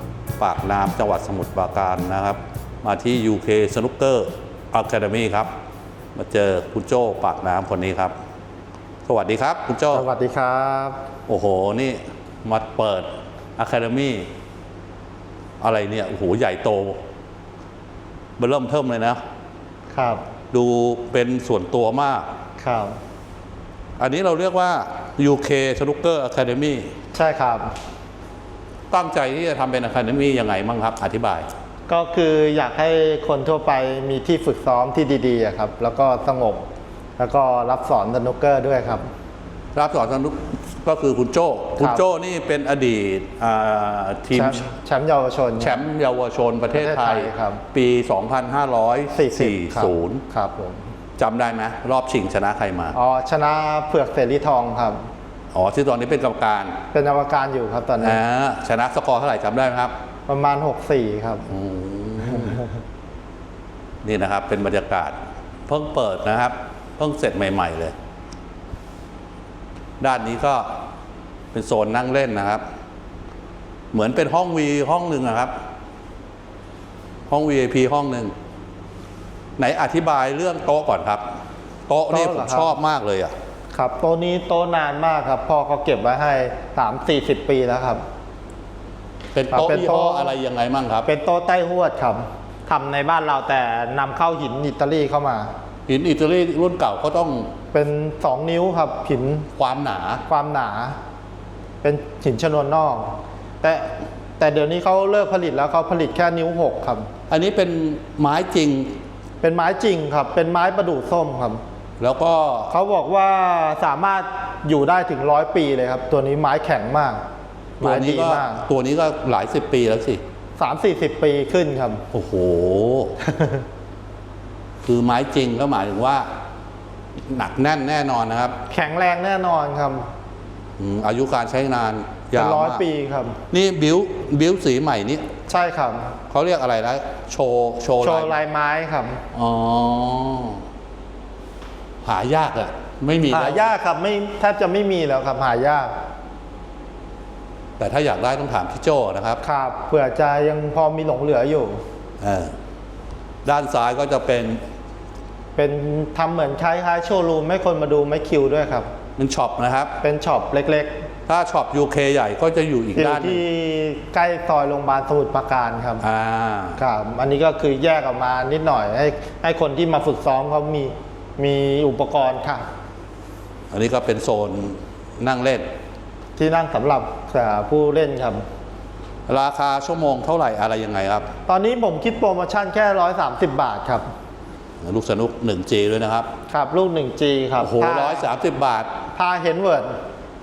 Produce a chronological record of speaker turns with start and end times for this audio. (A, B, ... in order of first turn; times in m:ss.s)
0:00.4-0:05.5 A
0:06.1-0:08.1 A
0:09.1-0:10.1 A
0:09.9-0:11.0 B
0:11.3-0:14.3 A
0:15.6-0:17.0 A
0:18.4-0:19.2 A
0:19.9-0:20.2 B
0:20.5-0:22.3 A
0:22.6-0:23.0 B
0:24.0-0:26.9 A
0:27.1-0:27.7 B
0:28.9-0:31.5 A
0:31.9-0:36.6 B
0:37.2-0:39.1 B
0:39.7-0:44.6 A
0:41.8-0:42.0 B
0:44.3-0:45.8 B
0:45.6-0:50.2 A
0:46.7-0:47.6 B
0:49.1-0:50.9 B
0:51.2-0:53.0 A
0:52.9-0:55.0 B
0:55.5-0:56.8 A
0:56.9-0:58.2 B
0:58.0-0:59.9 A
1:00.3-1:01.5 B
1:01.5-1:02.6 A
1:04.0-1:05.2 A
1:05.7-1:07.9 A
1:10.0-1:10.8 A
1:11.5-1:12.6 A
1:13.9-1:15.5 A
1:17.3-1:18.3 A
1:19.6-1:21.2 A
1:21.9-1:23.3 A
1:22.1-1:22.7 B
1:23.7-1:28.0 B
1:29.3-1:31.1 A
1:29.5-1:30.4 B
1:31.0-1:35.5 B
1:35.9-1:37.5 A
1:37.7-1:39.5 B
1:39.6-1:40.2 A
1:40.3-1:41.0 B
1:41.8-1:47.1 B
1:47.3-1:49.0 A
1:49.4-1:51.6 B
1:52.0-1:52.7 A
1:52.7-1:57.2 B
1:57.8-2:00.2 A
1:57.8-1:58.6 B
2:00.6-2:02.0 B
2:02.1-2:03.2 A
2:03.2-2:03.6 B
2:04.8-2:06.3 A
2:07.3-2:08.5 A
2:08.7-2:10.1 B
2:10.8-2:12.8 A
2:12.3-2:13.4 B
2:13.5-2:15.3 A
2:15.5-2:16.1 B
2:16.3-2:18.4 A
2:18.0-2:19.2 B
2:19.3-2:20.6 A
2:22.0-2:23.7 A
2:23.3-2:25.9 B
2:27.8-2:29.4 A
2:29.4-2:31.8 B
2:32.2-2:32.5 A
2:33.4-2:34.6 A
2:35.6-2:38.9 B
2:39.2-2:39.9 A
2:40.0-2:41.0 B
2:41.3-2:43.4 A
2:42.9-2:46.0 B
2:46.0-2:46.8 A
2:46.8-2:52.7 B
2:53.7-2:55.7 A
2:56.4-2:58.4 B
2:59.3-3:01.3 A
3:01.5-3:04.1 B
3:04.8-3:06.3 A
3:06.5-3:08.3 B
3:07.6-3:08.9 A
3:09.1-3:10.0 B